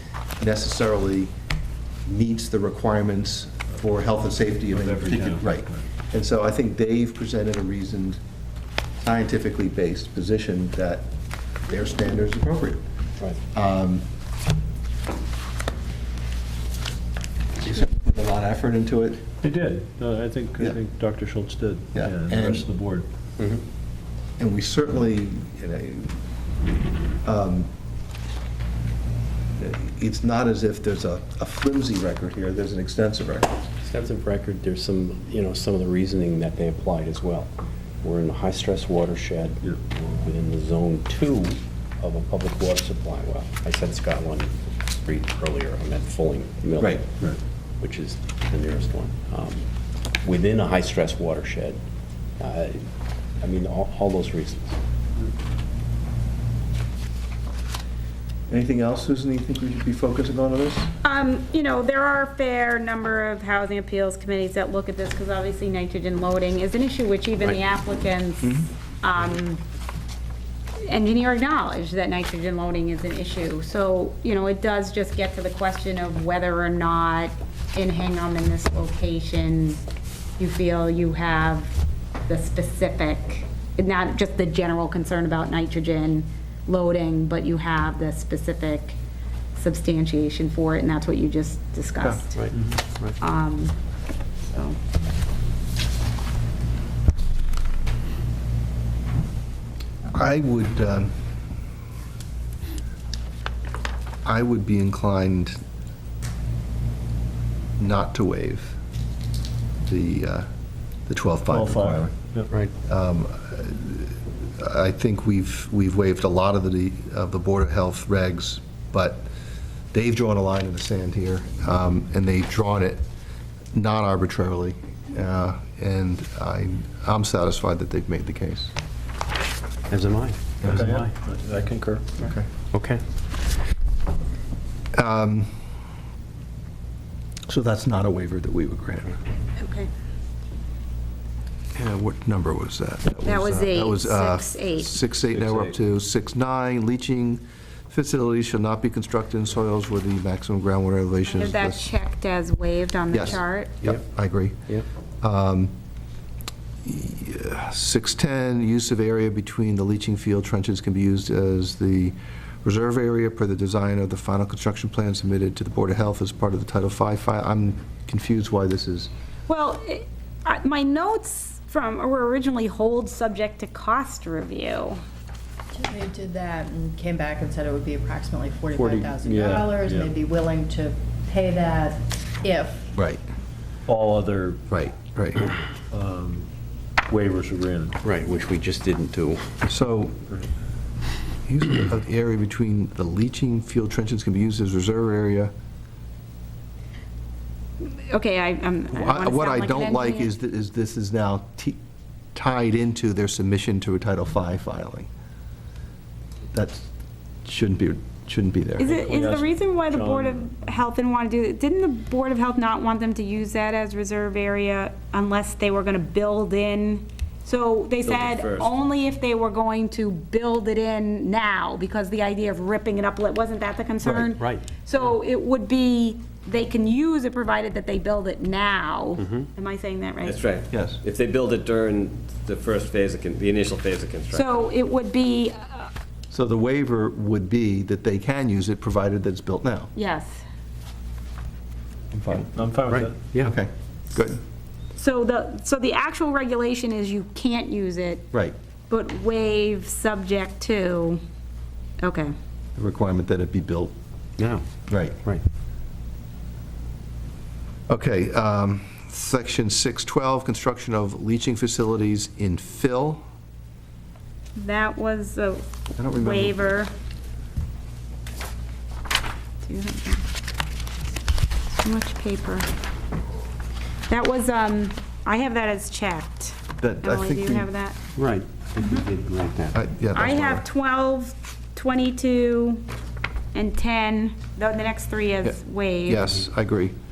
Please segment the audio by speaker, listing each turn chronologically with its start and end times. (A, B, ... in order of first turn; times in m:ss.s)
0:00.4-0:01.3 A
0:02.1-0:08.2 A
0:04.7-0:05.6 B
0:09.0-0:11.1 A
0:11.6-0:12.8 A
0:13.5-0:14.0 A
0:17.6-0:19.2 A
0:19.4-0:23.1 B
0:21.9-0:22.7 A
0:24.4-0:26.2 A
0:27.2-0:27.7 A
0:29.6-0:33.5 A
0:33.8-0:37.5 C
0:38.0-0:47.1 C
0:46.8-0:47.0 A
0:47.8-0:49.7 C
0:50.2-0:51.8 C
0:52.4-0:52.8 C
0:53.4-0:54.8 C
0:58.5-1:00.9 A
1:01.0-1:09.6 D
1:08.4-1:08.7 A
1:10.8-1:19.8 D
1:20.4-1:21.7 D
1:22.3-1:29.0 D
1:29.6-1:32.4 D
1:32.4-1:33.2 C
1:33.2-1:33.8 D
1:34.4-1:34.8 D
1:40.1-1:41.2 A
1:44.2-1:45.6 A
1:47.8-1:48.8 A
1:49.9-1:50.5 A
1:51.1-1:52.1 A
1:51.5-1:52.5 B
1:52.9-1:59.3 A
1:59.9-2:03.0 A
2:03.7-2:08.7 A
2:09.9-2:11.1 C
2:10.6-2:12.3 B
2:12.2-2:12.5 A
2:12.7-2:13.0 C
2:15.0-2:15.5 A
2:17.5-2:19.2 A
2:19.6-2:19.9 D
2:21.8-2:31.8 A
2:23.2-2:25.0 D
2:25.3-2:25.8 C
2:31.3-2:33.8 D
2:33.1-2:35.7 A
2:36.8-2:49.1 A
2:49.5-2:55.0 D
2:55.7-3:02.9 E
2:58.7-3:00.2 B
3:03.0-3:03.2 A
3:03.9-3:04.6 B
3:04.7-3:05.5 A
3:05.9-3:06.5 B
3:07.1-3:08.0 B
3:08.0-3:09.6 C
3:09.7-3:10.2 A
3:11.5-3:15.5 A
3:17.8-3:20.3 D
3:18.9-3:21.8 A
3:22.3-3:25.1 A
3:26.5-3:26.9 A
3:27.4-3:28.9 A
3:28.8-3:50.4 D
3:28.9-3:30.5 B
3:38.1-3:38.7 F
3:44.0-3:44.6 C
3:49.2-3:49.5 C
3:50.2-3:54.6 F
3:50.7-3:51.0 A
3:54.3-3:55.9 D
3:56.3-3:59.9 A
4:00.0-4:00.4 D
4:02.1-4:02.5 A
4:02.5-4:03.2 B
4:02.9-4:03.6 C
4:03.4-4:04.4 A
4:05.0-4:08.3 D
4:08.9-4:11.2 D
4:12.0-4:12.3 D
4:12.8-4:14.0 A
4:14.4-4:14.7 C
4:14.9-4:15.2 A
4:17.9-4:23.2 A
4:24.6-4:26.9 D
4:26.0-4:26.6 A
4:29.6-4:30.2 D
4:31.8-4:32.7 D
4:34.1-4:38.0 D
4:36.8-4:37.7 A
4:38.2-4:39.8 C
4:38.8-4:39.0 D
4:39.7-4:40.7 A
4:40.1-4:42.8 D
4:43.5-4:46.4 D
4:46.1-4:47.0 A